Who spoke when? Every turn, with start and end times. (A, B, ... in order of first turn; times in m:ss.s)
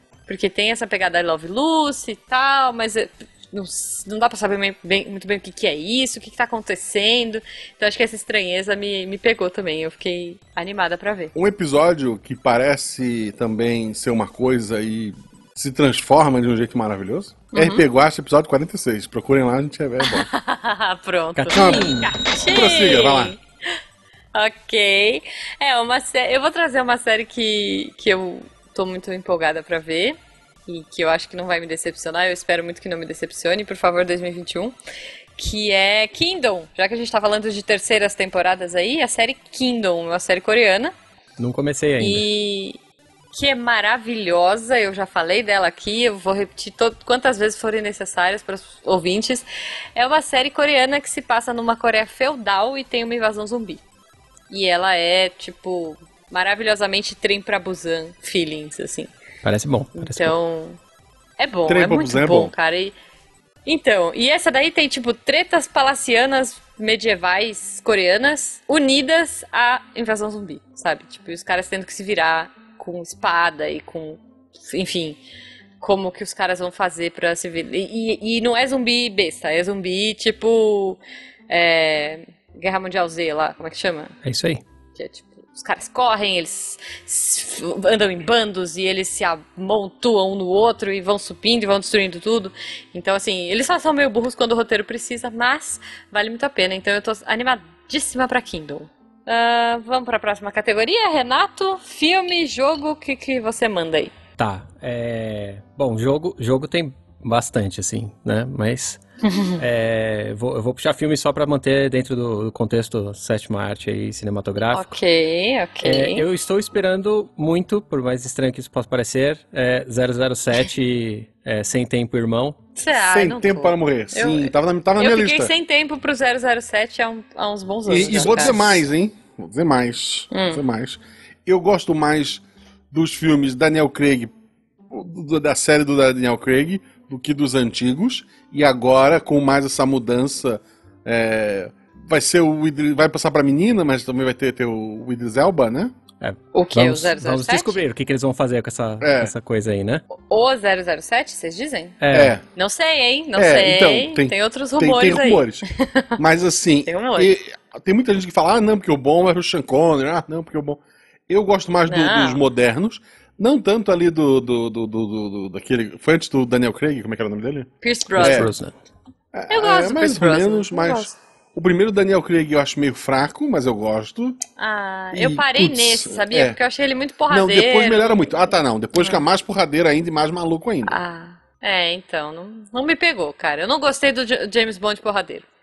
0:00.3-0:11.3 A
0:11.3-0:20.3 B
0:17.5-0:17.8 A
0:20.0-0:23.4 A
0:21.4-0:22.1 C
0:21.5-0:23.4 B
0:24.3-0:34.7 A
0:35.4-0:40.9 A
0:41.4-0:42.2 C
0:42.0-0:42.8 A
0:43.3-0:53.8 A
0:54.5-0:59.1 A
0:59.4-1:00.3 C
1:00.0-1:00.8 A
1:01.4-1:02.9 A
1:01.7-1:02.5 B
1:03.6-1:15.2 A
1:15.8-1:24.1 A
1:24.2-1:24.6 C
1:24.9-1:44.1 A
1:44.4-1:49.0 C
1:49.2-1:49.6 A
1:49.6-1:55.0 C
1:54.7-1:56.2 A
1:55.8-2:02.6 C
2:02.8-2:08.8 A
2:02.9-2:05.5 B
2:07.8-2:14.3 B
2:08.2-2:08.5 C
2:10.3-2:10.6 A
2:14.9-2:25.9 B
2:26.2-2:30.0 C
2:26.5-2:27.8 A
2:29.0-2:29.3 B
2:30.1-2:32.0 A
2:32.0-2:32.3 C
2:32.1-2:32.4 B
2:32.5-2:36.2 A
2:33.4-2:35.6 B
2:36.2-2:48.5 B
2:36.8-2:37.4 A
2:41.9-2:42.4 A
2:47.8-2:48.5 A
2:48.2-2:48.7 C
2:49.3-2:54.4 B
2:49.5-2:51.1 A
2:54.6-2:59.2 A
2:55.1-2:56.6 B
2:57.3-3:01.0 B
3:00.8-3:05.4 A